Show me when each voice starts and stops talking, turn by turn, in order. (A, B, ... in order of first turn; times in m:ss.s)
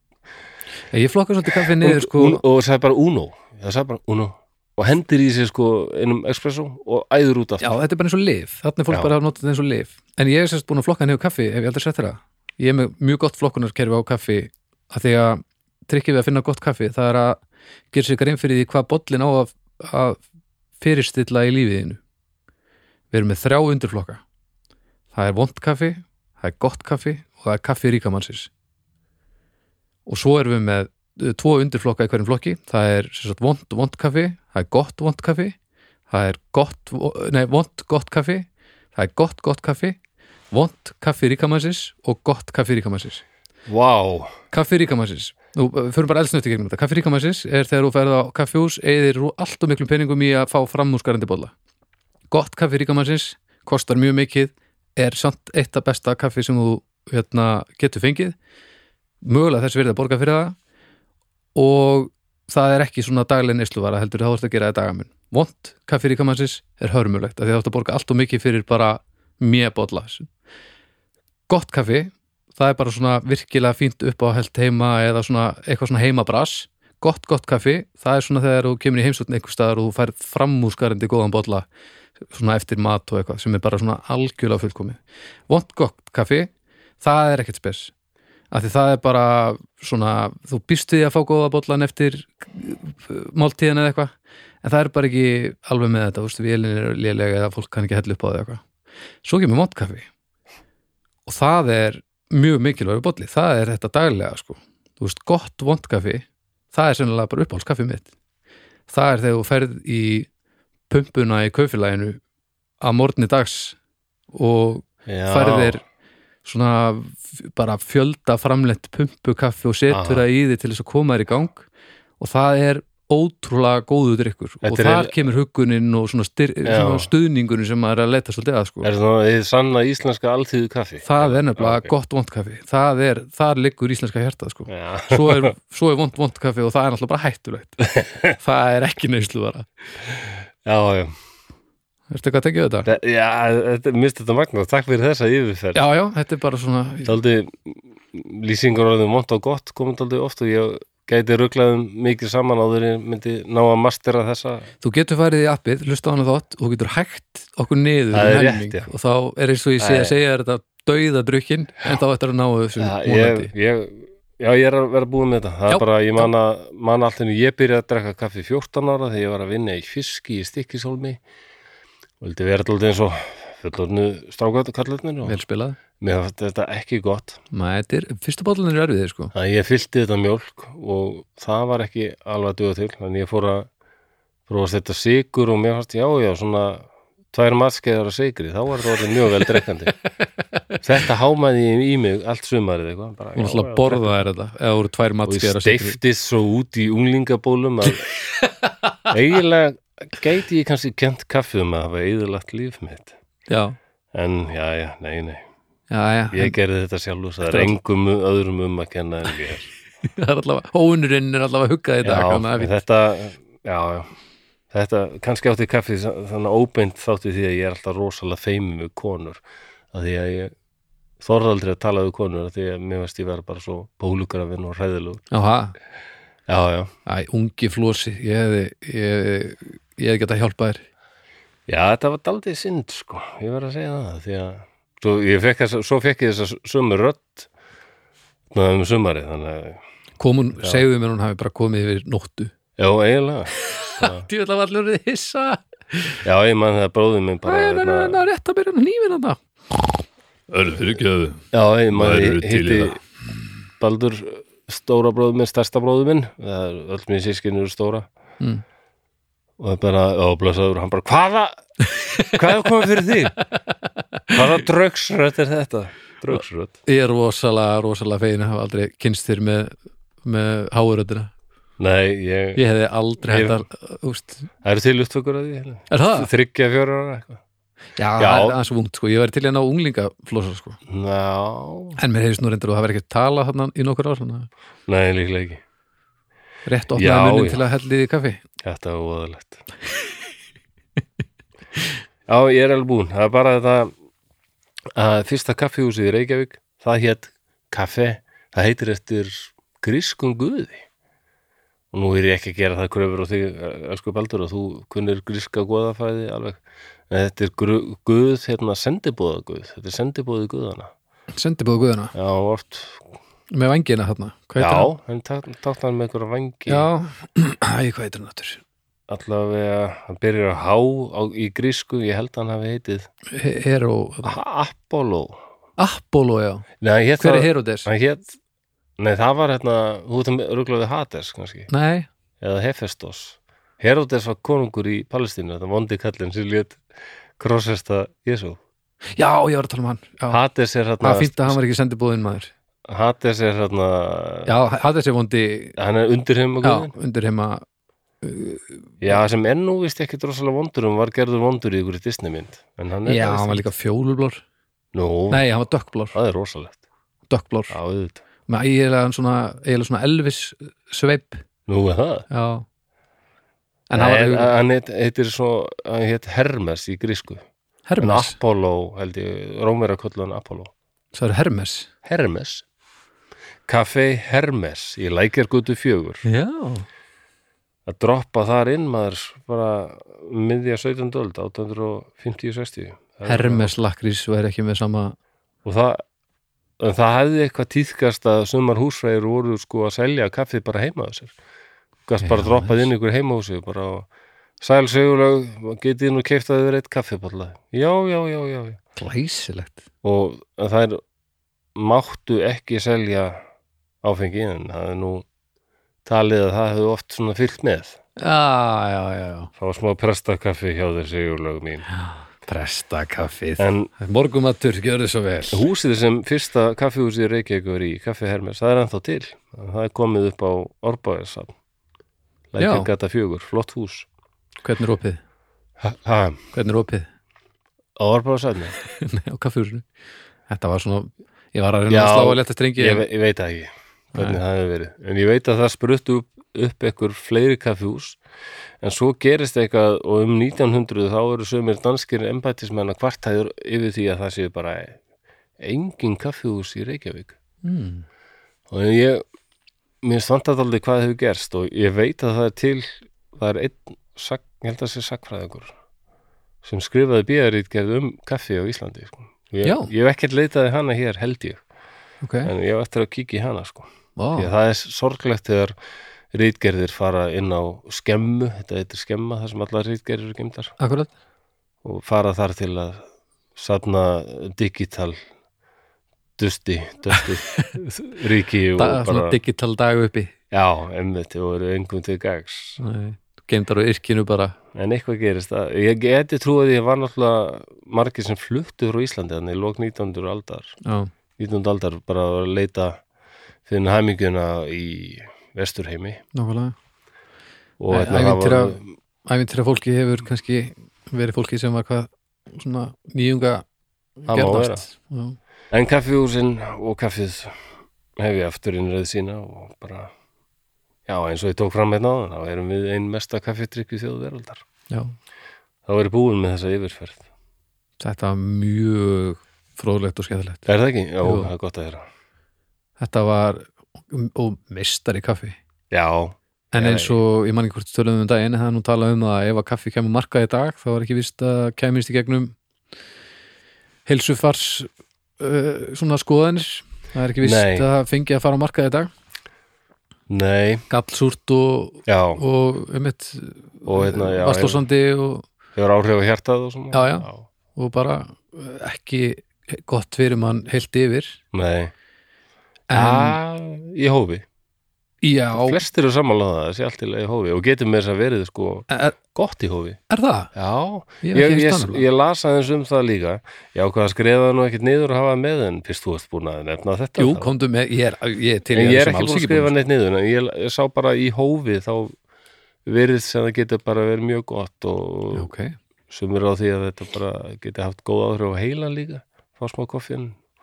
0:00.9-0:02.4 A
0:01.6-0:07.8 B
0:07.6-0:17.4 A
0:17.9-0:20.2 A
0:20.8-0:22.0 A
0:23.1-0:24.2 A
0:25.1-0:28.5 A
0:30.1-0:35.6 A
0:36.1-0:40.0 A
0:40.5-0:43.2 A
0:43.7-0:44.3 B
0:44.5-0:51.5 A
0:52.3-0:58.4 A
0:59.2-1:00.6 A
1:01.6-1:10.3 A
1:11.5-1:21.7 A
1:22.3-1:25.0 A
1:25.5-1:26.5 A
1:27.0-1:27.9 A
1:28.5-1:34.1 A
1:34.6-1:38.6 A
1:39.2-1:40.1 A
1:41.3-1:48.1 A
1:48.9-1:50.3 A
1:50.9-1:52.2 A
1:52.8-1:53.8 A
1:54.3-1:55.8 A
1:55.1-1:55.8 B
1:56.4-2:01.7 A
1:59.9-2:00.2 B
2:02.2-2:08.9 A
2:04.6-2:05.1 B
2:06.6-2:07.1 B
2:08.8-2:11.9 B
2:11.0-2:19.7 A
2:14.7-2:15.5 B
2:20.6-2:21.1 B
2:22.1-2:22.9 A
2:22.8-2:25.8 B
2:25.7-2:27.2 A
2:27.0-2:34.7 B
2:34.8-2:43.5 A
2:38.1-2:38.9 B
2:39.8-2:40.2 B
2:42.8-2:51.2 B
2:45.7-2:46.3 A
2:52.2-2:55.4 B
2:55.2-2:55.8 A
2:56.0-2:57.4 B
2:57.5-2:59.3 A
2:59.3-3:03.7 B
3:04.5-3:10.0 B
3:10.8-3:14.2 B
3:13.4-3:16.0 A
3:15.3-3:18.0 B
3:19.1-3:23.2 B
3:23.5-3:23.8 A
3:24.1-3:25.4 B
3:25.9-3:26.6 A
3:26.3-3:29.7 B
3:27.4-3:27.8 A
3:30.0-3:32.8 A
3:32.0-3:34.1 B
3:34.7-3:39.4 B
3:39.9-3:40.5 B
3:41.2-3:45.2 B
3:45.3-3:45.8 A
3:46.5-3:46.9 B
3:47.1-3:50.8 A
3:51.7-3:57.5 B
3:58.5-3:59.8 B
4:00.2-4:02.5 A
4:02.8-4:04.3 B
4:03.6-4:06.2 A
4:06.2-4:08.3 B
4:07.4-4:09.9 A
4:10.5-4:13.0 C
4:11.5-4:13.0 B
4:13.8-4:18.1 B
4:19.6-4:21.5 B
4:21.9-4:22.4 A
4:22.2-4:23.4 B
4:24.3-4:26.8 B
4:26.3-4:31.3 A
4:31.8-4:32.6 B
4:32.6-4:34.5 A
4:33.3-4:33.6 B
4:34.6-4:37.4 B
4:35.9-4:36.3 A
4:38.0-4:40.8 A
4:38.2-4:38.6 B
4:40.9-4:42.0 B
4:42.0-4:44.5 A
4:44.9-4:45.6 B
4:46.7-4:48.4 A
4:47.0-4:47.6 B
4:48.6-4:49.6 B
4:52.3-4:53.9 B
4:55.0-5:00.9 B
5:01.9-5:10.9 B
5:11.3-5:12.1 A
5:12.1-5:13.0 B
5:13.5-5:14.9 A
5:14.6-5:16.9 B
5:16.7-5:18.6 A
5:19.1-5:23.1 B
5:23.3-5:24.4 A
5:24.2-5:25.4 B
5:25.8-5:26.7 A
5:26.8-5:28.4 B
5:27.2-5:27.9 A
5:29.0-5:31.7 B
5:31.7-5:32.1 A
5:32.4-5:36.8 B
5:37.4-5:38.6 B
5:39.2-5:40.4 A
5:40.3-5:41.6 B
5:41.0-5:42.5 A
5:42.9-5:44.5 B
5:44.5-5:45.8 A
5:45.8-5:46.9 B
5:46.6-5:47.6 A
5:48.2-5:49.1 A
5:49.0-5:53.7 B
5:53.0-5:54.4 A
5:54.9-5:55.4 B
5:55.3-5:56.2 A
5:56.1-5:56.8 B
5:57.3-5:57.8 A
5:57.7-5:58.2 B
5:58.5-6:01.4 A
6:01.7-6:02.3 B
6:02.3-6:02.6 A
6:03.9-6:04.5 A
6:03.9-6:07.5 B
6:07.9-6:08.4 A
6:08.0-6:10.7 B
6:11.1-6:11.9 A
6:12.0-6:12.6 B
6:13.7-6:16.2 B
6:16.2-6:16.9 A
6:17.9-6:23.7 B
6:23.3-6:25.2 A
6:25.6-6:26.0 B
6:26.8-6:31.3 B
6:32.1-6:34.1 B
6:32.2-6:32.9 A
6:34.6-6:38.8 B
6:39.0-6:39.8 A
6:40.0-6:41.0 B
6:41.8-6:43.4 B
6:44.0-6:45.3 B
6:46.0-6:48.0 B
6:48.2-6:49.5 A
6:49.6-6:51.9 B
6:51.9-6:55.6 A
6:53.6-6:53.9 B
6:55.5-7:01.6 B
7:02.5-7:04.1 B
7:02.6-7:02.9 A
7:04.6-7:05.2 A
7:05.8-7:06.4 B
7:06.5-7:07.1 A
7:08.0-7:08.8 B
7:08.8-7:09.8 A
7:10.5-7:13.1 A
7:11.9-7:18.2 B
7:14.1-7:14.4 A
7:18.8-7:25.0 B
7:25.6-7:27.4 B
7:27.6-7:28.0 A
7:28.7-7:29.2 B
7:30.0-7:35.8 B
7:36.6-7:41.6 B
7:39.6-7:39.9 A
7:42.2-7:42.5 A
7:42.4-7:45.8 B
7:44.2-7:44.5 A
7:46.3-7:50.8 B
7:50.8-7:51.1 A
7:51.8-7:53.0 B
7:53.6-7:55.2 B
7:56.4-7:59.4 B
7:57.1-7:57.7 A
7:58.8-8:00.3 A
8:00.5-8:02.8 B
8:02.8-8:04.6 A
8:04.7-8:10.8 B
8:10.8-8:11.1 A
8:11.4-8:13.0 B
8:13.7-8:16.2 B
8:16.3-8:16.7 A
8:17.8-8:18.9 B
8:17.9-8:23.6 A
8:24.2-8:25.4 A
8:24.3-8:24.8 B
8:25.7-8:27.6 B
8:28.2-8:30.1 B
8:31.1-8:34.6 B
8:35.9-8:37.2 B
8:38.0-8:40.7 A
8:40.7-8:42.0 B
8:41.2-8:41.5 A
8:43.0-8:45.6 A
8:45.9-8:47.2 B
8:46.7-8:52.6 A
8:54.1-8:59.1 A
8:57.4-8:57.9 B
9:00.3-9:00.8 B
9:00.9-9:05.5 A
9:02.1-9:02.4 B
9:03.9-9:04.8 B
9:05.8-9:07.4 B
9:06.9-9:11.4 A
9:11.5-9:11.9 B
9:12.9-9:13.4 A
9:12.9-9:14.4 B
9:15.2-9:15.8 A
9:15.5-9:20.0 B
9:18.9-9:19.2 A
9:20.1-9:20.5 A
9:20.5-9:27.5 B
9:21.2-9:22.0 A
9:27.2-9:29.7 A
9:28.7-9:32.1 B
9:32.9-9:35.5 B
9:35.3-9:35.8 A
9:36.1-9:40.4 B